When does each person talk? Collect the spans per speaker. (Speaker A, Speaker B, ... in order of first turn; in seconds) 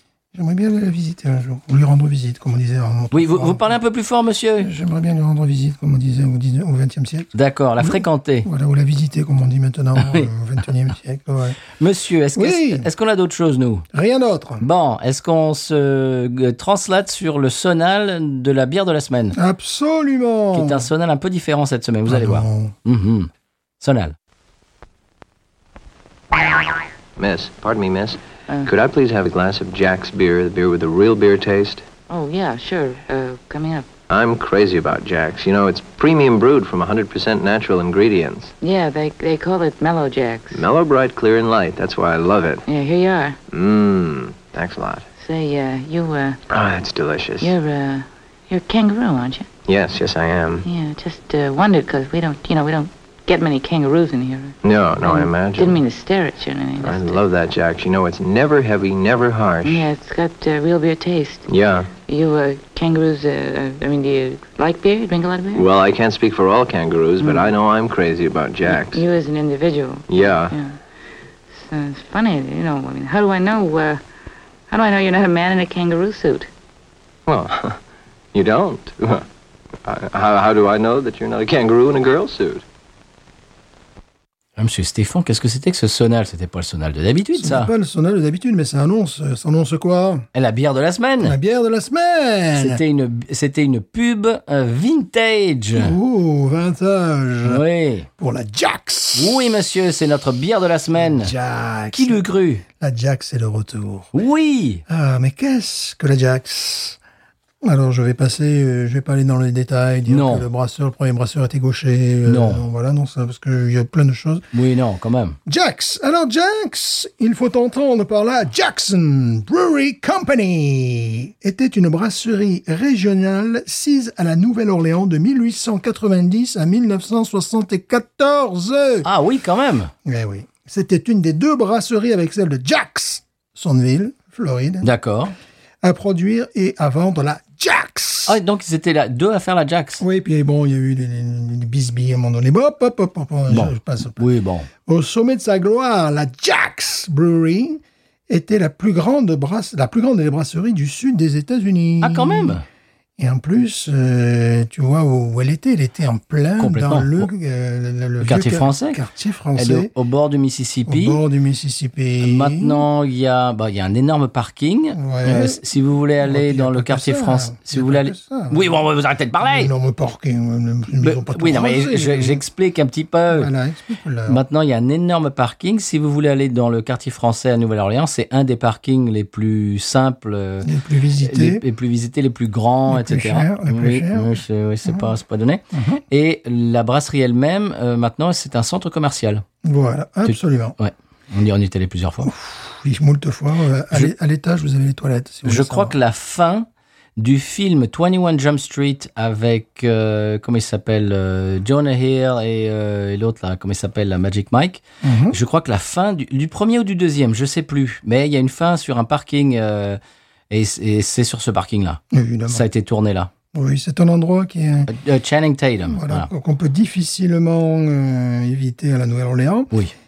Speaker A: 0.3-3.8, 4.6-11.6, 12.4-12.9, 13.9-14.7, 19.4-20.9, 22.1-22.8, 87.3-90.3, 91.2-92.8, 95.8-97.6, 98.2-99.6, 101.0-104.1, 104.9-107.0, 107.6-114.5, 115.5-129.1, 130.1-134.9, 135.8-138.4, 140.0-144.2, 144.8-152.6, 153.2-159.9, 160.9-162.9, 164.9-165.6, 166.2-168.8, 169.4-172.4, 173.3-174.4, 180.6-181.6, 182.9-184.3, 185.7-186.0, 189.6-190.8, 192.2-195.9, 205.0-205.4, 212.1-212.7, 213.5-214.9, 215.8-219.7
Speaker B: 3.1-4.7, 7.3-8.5, 10.0-10.3, 11.8-13.9, 14.6-19.4, 20.5-24.1, 84.6-87.7, 90.3-91.4, 92.6-96.0, 97.5-98.1, 99.2-101.3, 101.9-102.6, 104.1-104.8, 110.1-110.5, 112.3-112.7, 114.5-115.4, 129.0-129.9, 134.8-135.3, 138.3-140.0, 143.5-144.7, 152.0-152.7, 156.6-157.3, 158.2-159.0, 159.6-161.2, 162.2-169.7, 171.0-173.5, 174.3-180.7, 181.2-189.4, 190.3-192.3, 195.4-210.0, 210.5-213.3, 214.9-216.3
Speaker C: 27.2-31.9, 34.1-38.5, 40.5-42.6, 43.5-45.1, 46.5-47.5, 49.7-50.7, 54.6-55.8, 56.8-59.9, 61.5-61.9, 65.5-69.0, 70.1-70.5, 77.3-77.8, 78.3-79.2, 79.8-82.6
Speaker D: 32.1-33.9, 38.6-40.6, 42.7-43.4, 45.2-46.4, 47.4-49.5, 50.6-57.2, 59.6-65.7, 67.2-67.5, 68.7-70.8, 71.5-74.0, 74.7-76.5